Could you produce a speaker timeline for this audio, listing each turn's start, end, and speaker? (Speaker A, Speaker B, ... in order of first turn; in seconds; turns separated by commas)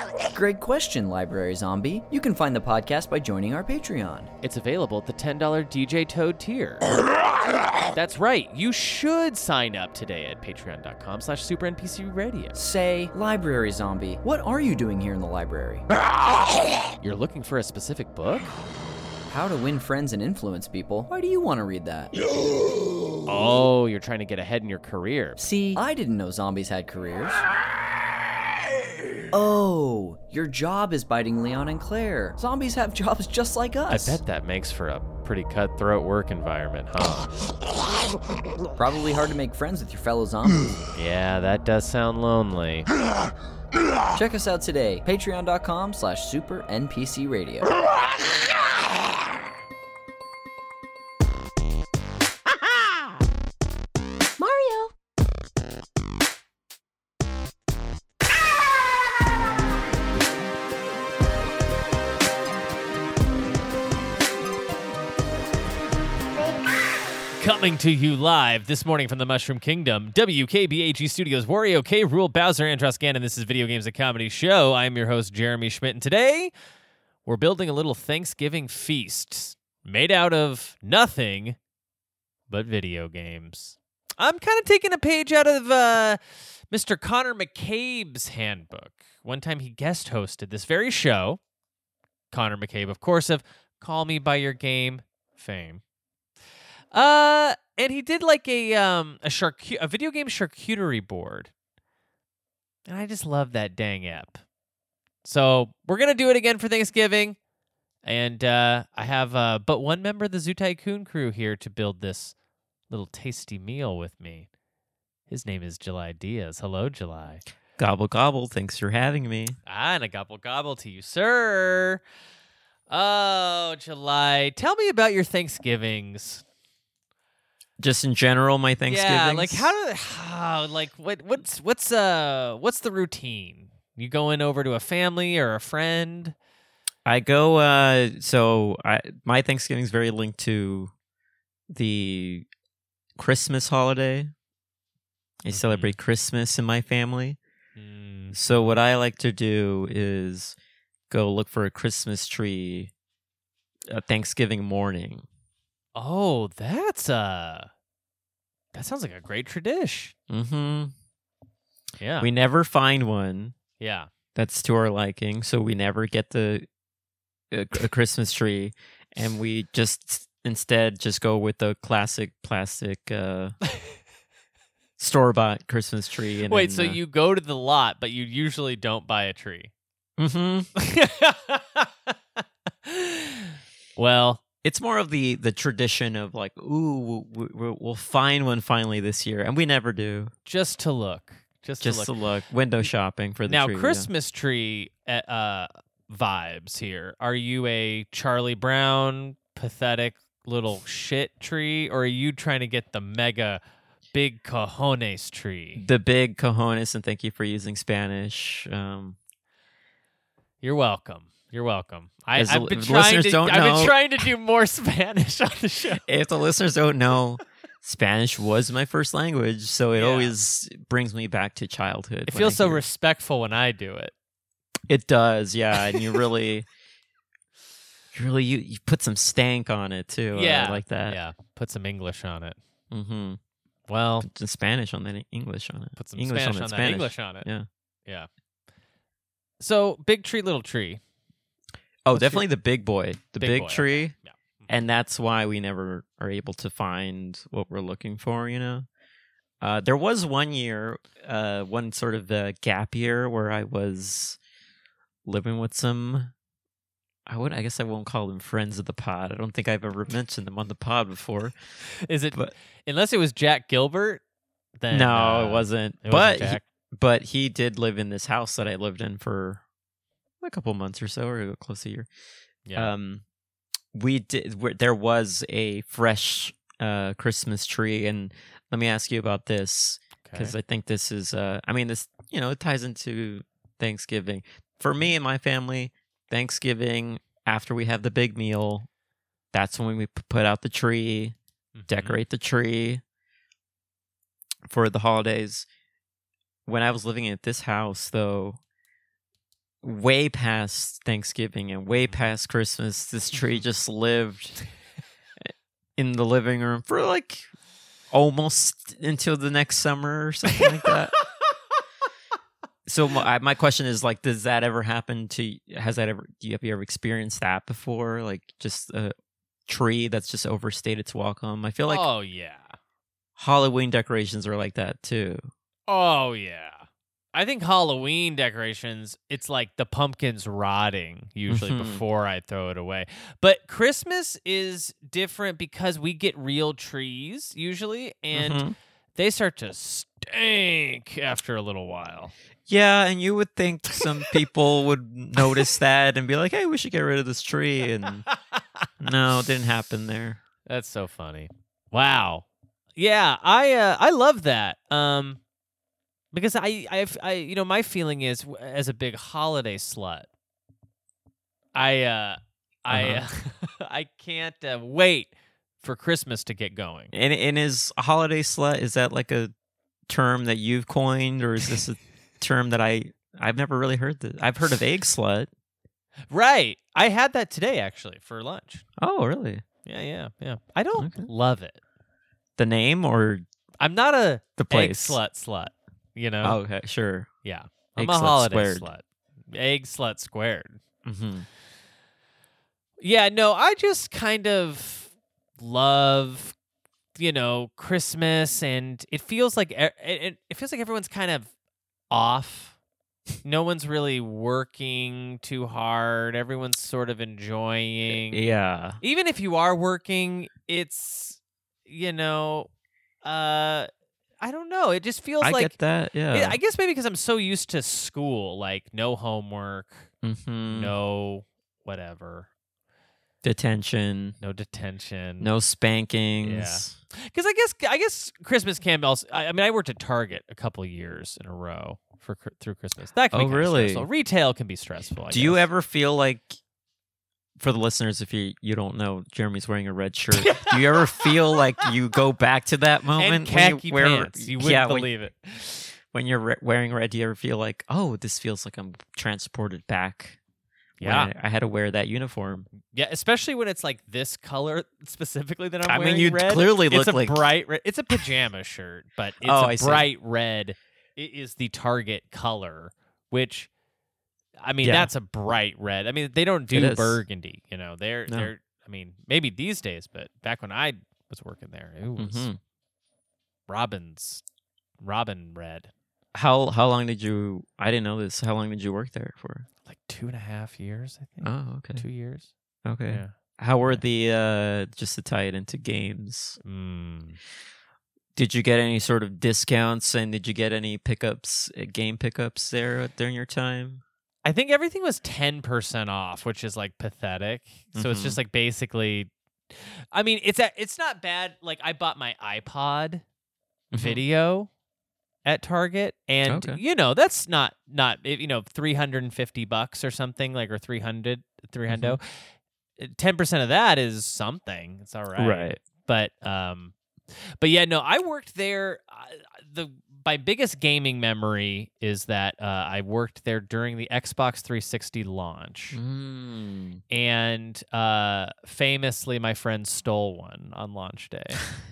Speaker A: 0.3-4.3, Speaker B: 4.4-6.8, Speaker B: 7.9-12.6, Speaker A: 12.6-15.9, Speaker B: 17.0-18.5, Speaker A: 19.3-22.1, Speaker B: 23.3-25.4, Speaker A: 25.4-27.4, Speaker A: 29.3-34.2, Speaker B: 33.9-37.3, Speaker A: 38.8-40.9, Speaker B: 41.0-42.9, Speaker A: 44.1-47.7, Speaker A: 54.4-54.9, Speaker B: 67.4-76.5, Speaker B: 77.3-81.6, Speaker B: 82.5-91.4, Speaker B: 92.3-95.8, Speaker B: 96.9-101.5, Speaker B: 102.9-104.4, Speaker B: 105.2-107.4, Speaker B: 108.0-112.3, Speaker B: 112.9-114.5, Speaker B: 115.3-117.4, Speaker C: 117.8-119.6, Speaker B: 119.7-122.0, Speaker B: 122.9-126.4, Speaker C: 127.8-129.7, Speaker B: 128.9-136.3, Speaker C: 137.1-140.9, Speaker C: 141.7-142.5, Speaker C: 143.2-144.3, Speaker C: 145.4-147.4, Speaker B: 145.5-145.9, Speaker B: 147.8-148.4, Speaker C: 148.3-150.6, Speaker C: 151.1-152.9, Speaker C: 153.9-155.2, Speaker B: 155.9-157.7, Speaker B: 158.7-160.1, Speaker C: 160.3-160.9, Speaker B: 162.0-162.3, Speaker C: 162.2-163.6, Speaker B: 163.8-164.1, Speaker C: 164.3-166.7, Speaker C: 167.5-173.6, Speaker C: 175.0-177.0, Speaker B: 176.5-179.7, Speaker C: 180.2-180.7, Speaker B: 180.8-182.1, Speaker B: 182.8-184.4, Speaker C: 184.6-190.3, Speaker B: 190.5-192.1, Speaker C: 191.8-194.1, Speaker B: 193.5-203.6, Speaker B: 204.1-205.8, Speaker C: 205.8-209.2, Speaker B: 210.6-216.0, Speaker C: 212.3-213.9, Speaker C: 216.0-222.8, Speaker B: 220.0-220.3, Speaker B: 222.3-224.1, Speaker C: 224.9-226.7, Speaker C: 228.1-231.2, Speaker B: 230.3-232.6, Speaker C: 232.9-233.4, Speaker B: 233.9-234.3, Speaker C: 234.2-237.7, Speaker B: 236.0-237.5, Speaker B: 239.6-241.0, Speaker C: 242.1-244.2, Speaker B: 242.1-242.4, Speaker B: 243.4-244.7, Speaker C: 244.7-248.9, Speaker C: 249.6-254.4, Speaker C: 255.3-256.3, Speaker C: 257.3-261.6, Speaker B: 262.0-264.2, Speaker B: 264.8-266.6, Speaker C: 264.9-269.6, Speaker C: 270.4-272.1, Speaker B: 272.7-272.9, Speaker C: 272.8-273.2, Speaker C: 273.9-288.9, Speaker B: 280.2-280.6, Speaker C: 289.5-291.4, Speaker B: 291.8-292.2, Speaker C: 291.9-293.0, Speaker C: 294.7-295.7, Speaker C: 296.7-298.6, Speaker C: 299.8-304.6, Speaker B: 301.9-302.2, Speaker C: 306.0-307.5, Speaker C: 308.1-311.2, Speaker C: 312.9-319.1, Speaker C: 319.7-322.1, Speaker B: 321.9-322.8, Speaker C: 323.4-325.5, Speaker B: 325.9-338.6, Speaker C: 331.5-332.0, Speaker C: 338.3-338.8, Speaker B: 339.1-342.3, Speaker C: 342.7-348.2, Speaker B: 348.3-348.6, Speaker C: 349.0-350.4, Speaker B: 350.7-355.4, Speaker B: 356.3-360.3, Speaker B: 361.8-367.1, Speaker C: 362.9-363.2, Speaker C: 367.1-369.5, Speaker C: 370.1-375.5, Speaker B: 376.3-378.8, Speaker C: 379.0-379.6, Speaker B: 379.9-381.8, Speaker C: 381.0-381.3, Speaker C: 382.6-383.4, Speaker B: 383.8-386.6, Speaker C: 384.6-385.2, Speaker C: 386.4-387.3, Speaker B: 387.4-390.8, Speaker C: 388.0-388.9, Speaker C: 391.1-391.5, Speaker B: 393.0-396.6, Speaker B: 397.2-401.5, Speaker B: 402.1-402.8, Speaker B: 403.4-408.4, Speaker C: 408.1-409.0, Speaker B: 409.0-412.7, Speaker B: 413.2-413.9, Speaker B: 414.4-415.8, Speaker C: 415.4-416.6, Speaker B: 416.3-420.1, Speaker C: 420.2-420.9, Speaker B: 420.7-422.5, Speaker C: 423.4-424.4, Speaker B: 424.4-425.5, Speaker C: 425.4-427.0, Speaker B: 426.4-435.6, Speaker C: 433.3-434.1, Speaker C: 435.3-436.6, Speaker C: 437.6-445.1, Speaker B: 440.4-441.9, Speaker B: 443.2-445.9, Speaker C: 446.1-450.4, Speaker B: 451.0-451.3, Speaker C: 451.0-452.7, Speaker B: 452.8-463.7, Speaker C: 455.9-457.5, Speaker C: 459.4-460.1, Speaker B: 464.6-472.5, Speaker C: 464.8-465.1, Speaker C: 466.7-467.2, Speaker C: 472.2-472.6, Speaker B: 473.7-474.4, Speaker B: 475.0-475.9, Speaker C: 476.4-479.7, Speaker B: 479.9-482.5, Speaker C: 481.4-482.1, Speaker C: 482.9-486.6, Speaker B: 486.6-487.4, Speaker C: 488.4-494.0, Speaker B: 494.4-503.2, Speaker C: 497.9-498.4, Speaker C: 503.9-504.2, Speaker B: 504.0-504.7, Speaker B: 505.4-517.0, Speaker C: 506.5-506.8, Speaker C: 511.9-512.2, Speaker C: 515.4-515.8, Speaker B: 517.6-526.0, Speaker C: 525.9-527.0, Speaker B: 527.1-531.7